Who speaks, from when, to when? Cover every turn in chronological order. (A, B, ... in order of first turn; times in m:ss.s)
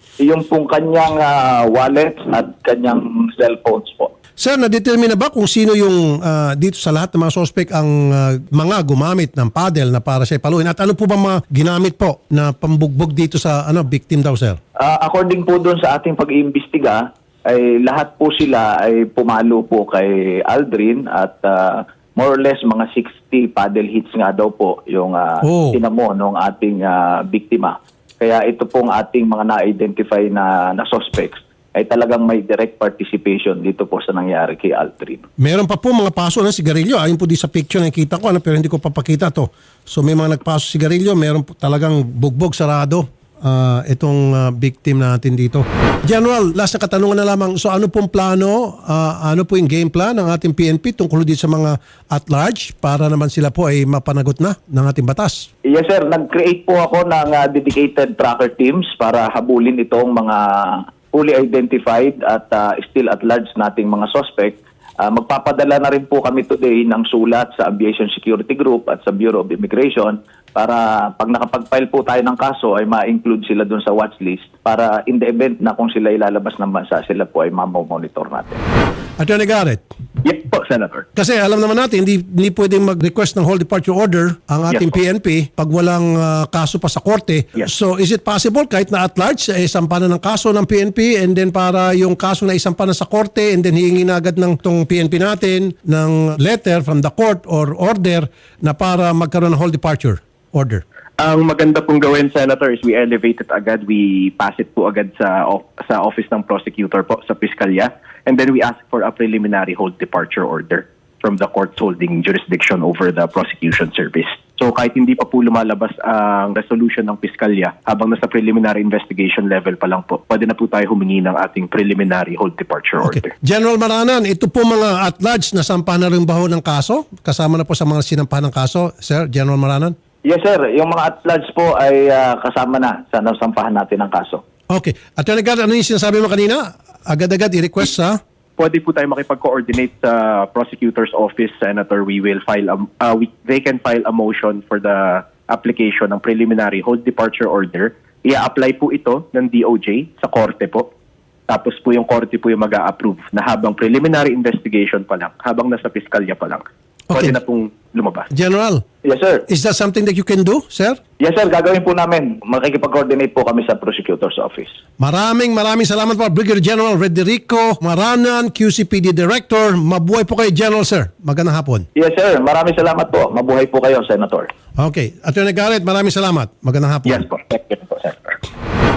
0:00.2-0:04.1 A
0:04.4-0:14.6 B
0:14.8-0:35.3 A
0:25.4-0:25.8 B
0:35.4-0:55.5 B
0:55.6-1:18.6 A
1:19.2-1:19.8 B
1:20.2-1:21.1 C
1:21.2-1:40.8 B
1:41.2-2:03.3 C
2:03.0-2:10.0 B
2:10.2-2:14.4 A
2:14.7-2:18.2 B
2:18.6-2:30.9 C
2:31.5-2:38.3 C
2:37.1-2:37.4 B
2:38.3-2:38.8 B
2:39.0-2:39.4 A
2:39.5-2:41.0 B
2:41.2-2:44.8 A
2:45.0-2:51.9 B
2:52.0-2:54.5 A
2:54.8-2:57.3 B
2:57.4-2:58.3 C